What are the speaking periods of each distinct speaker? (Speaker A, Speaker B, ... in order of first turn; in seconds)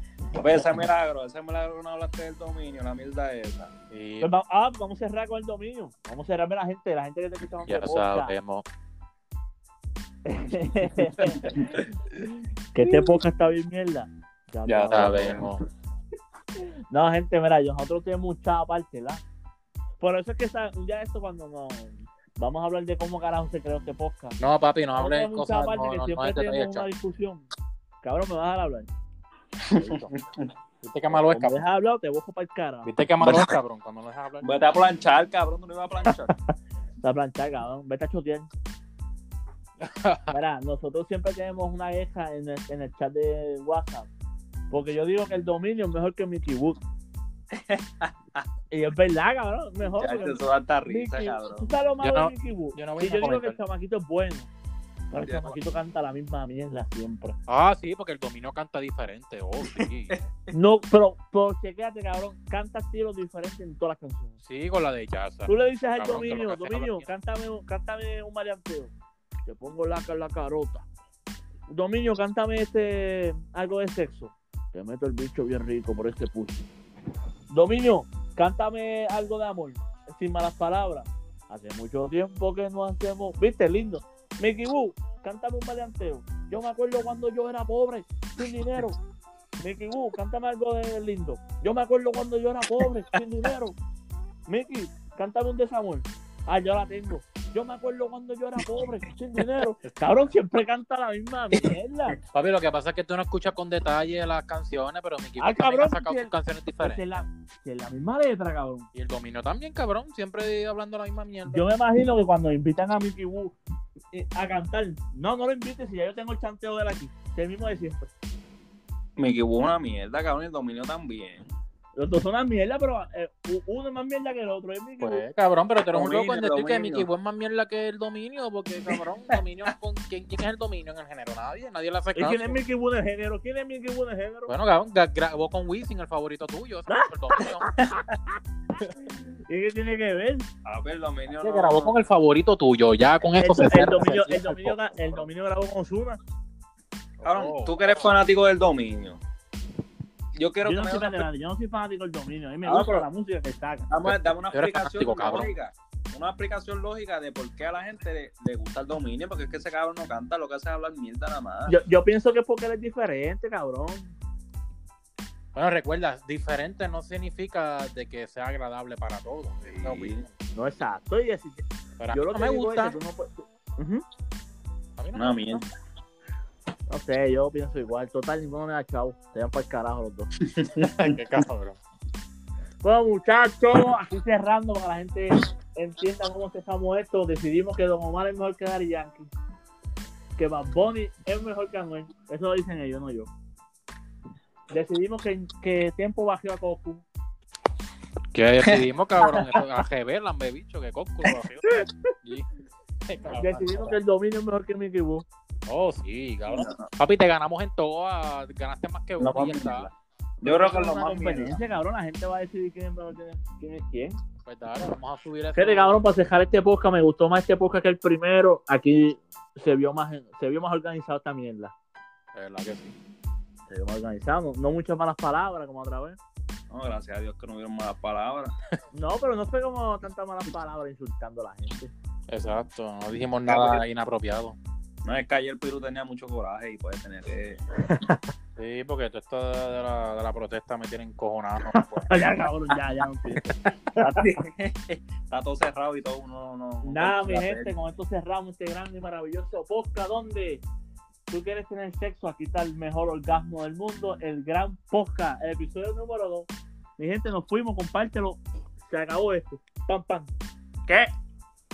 Speaker A: 0.3-3.7, 11.2-11.9, 14.7-15.6, 29.6-30.5, 33.2-33.5, 34.4-36.3, 47.5-48.5, 49.8-51.7, 55.3-55.6, 59.6-60.5, 119.2-121.5, 125.9-127.1, 128.9-129.7, 140.7-142.0, 147.2-149.2, 150.3-151.3, 152.6-153.1, 153.9-161.8, 169.6-170.2, 175.2-175.7, 180.4-181.4, 206.5-206.9, 209.2-209.7, 210.4-211.6, 226.7-228.5, 233.5-233.8, 235.1-237.6, 244.0-247.8
Speaker B: 3.9-4.3, 7.7-8.7, 14.9-15.6, 24.4-26.9, 30.8-31.6, 32.9-34.5, 39.8-40.4, 52.0-53.6, 57.5-60.2, 64.4-67.1, 102.3-107.2, 108.9-111.7, 125.0-132.6, 134.5-137.7, 141.4-145.3, 147.2-147.8, 154.1-155.6, 165.6-170.3, 172.0-173.0, 175.0-175.6, 181.0-181.8, 198.3-201.7, 202.2-202.5, 203.1-203.9, 205.7-209.9, 214.5-216.0, 222.3-222.9, 232.3-234.6, 238.6-242.3
Speaker C: 4.2-8.3, 10.2-11.8, 12.7-15.5, 16.9-19.2, 20.0-24.4, 24.9-27.5, 28.0-28.9, 29.8-30.1, 31.1-32.9, 37.0-38.5, 40.3-44.1, 44.7-46.8, 48.7-54.5, 55.1-57.4, 60.5-64.4, 65.5-68.9, 69.5-70.8, 71.7-76.7, 77.5-89.0, 89.6-93.8, 94.5-102.2, 105.4-108.9, 111.5-113.6, 114.1-118.1, 122.0-125.2, 132.2-134.5, 136.9-138.2, 138.8-140.5, 143.4-146.2, 150.6-153.9, 161.7-164.2, 170.6-174.0, 176.9-180.3, 182.8-189.3, 190.4-193.3, 194.7-197.0, 203.4-205.2, 209.2-209.9, 210.4-214.2, 215.6-221.7, 223.7-226.2, 228.9-231.9, 237.9-238.2, 242.0-244.4, 246.8-250.6, 251.3-260.3